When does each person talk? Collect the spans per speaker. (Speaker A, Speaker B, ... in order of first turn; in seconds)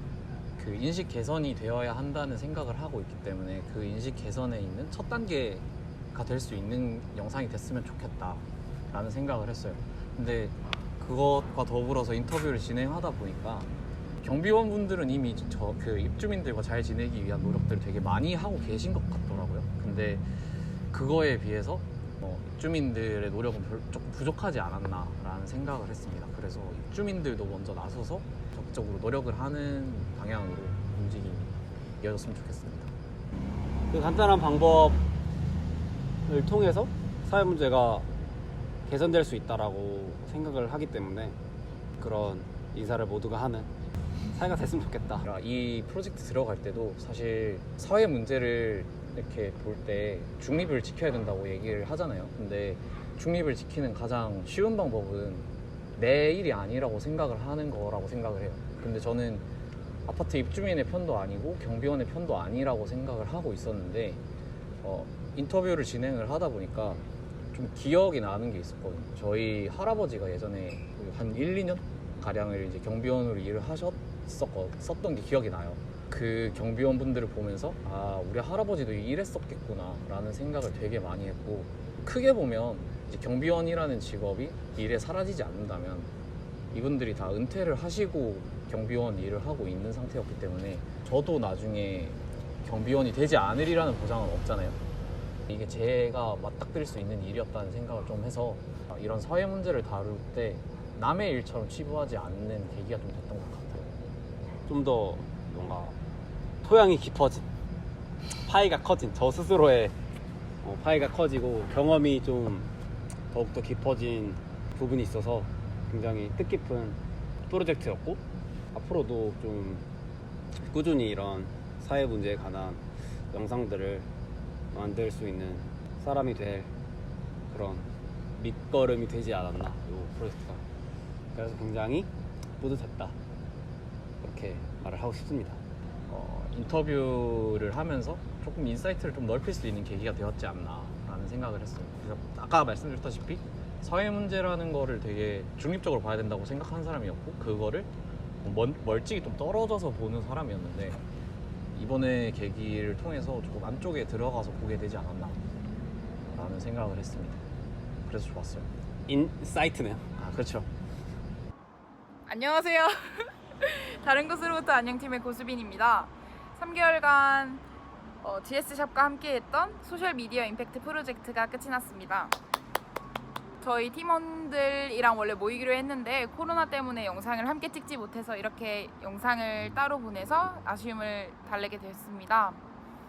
Speaker A: 0.6-32.9, 45.2-59.5, 60.1-64.2, 64.8-86.1, 86.7-94.8, 95.5-104.0, 136.1-147.9, 148.4-151.0, 151.7-155.4, 156.3-157.4, 158.1-158.7, 160.2-160.7
Speaker B: 33.9-35.0, 36.3-38.1, 38.9-41.4, 42.0-43.7, 44.3-45.2, 104.7-106.0, 106.6-107.5, 108.4-110.0, 110.6-112.7, 113.3-118.2, 118.7-119.8, 120.6-124.1, 124.7-126.7, 127.5-130.6, 131.3-133.2, 134.2-135.6, 159.1-160.1
Speaker C: 162.3-167.6, 168.2-172.4, 173.6-182.6